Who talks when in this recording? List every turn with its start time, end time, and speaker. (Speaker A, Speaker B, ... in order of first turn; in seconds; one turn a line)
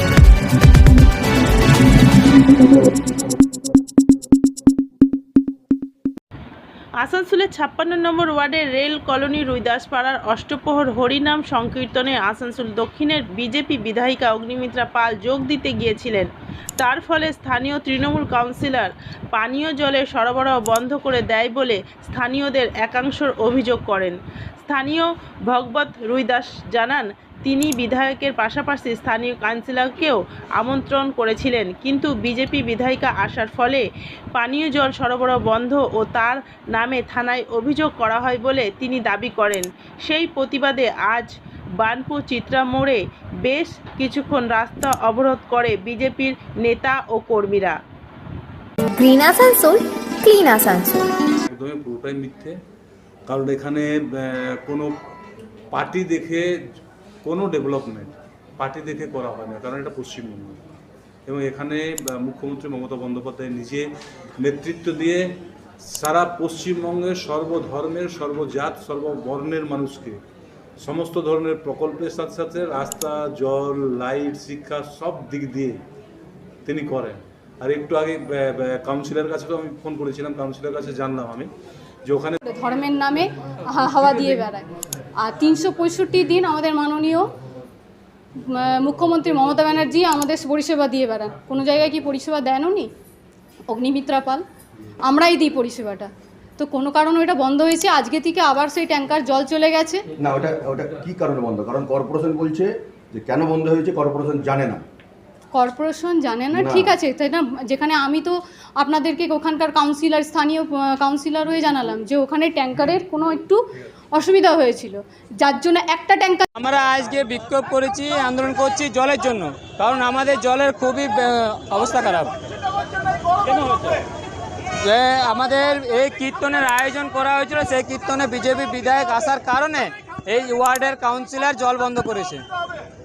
Speaker A: 7.0-47.8
Speaker B: 49.0-51.0
Speaker C: 51.5-52.5
Speaker C: 53.3-54.9
Speaker C: 55.7-56.5
Speaker C: 57.2-60.6
Speaker C: 61.3-63.9
Speaker C: 64.4-65.2
Speaker C: 65.8-70.2
Speaker C: 70.8-75.8
Speaker C: 76.7-81.5
Speaker C: 82.1-82.4
Speaker D: 82.4-87.3
Speaker D: 88.5-92.9
Speaker D: 93.7-94.4
Speaker D: 95.0-100.0
Speaker E: 100.2-104.8
Speaker D: 105.5-113.6
Speaker E: 106.5-106.9
Speaker D: 114.1-116.5
Speaker F: 116.6-122.3
Speaker F: 123.6-124.0
Speaker F: 124.8-132.4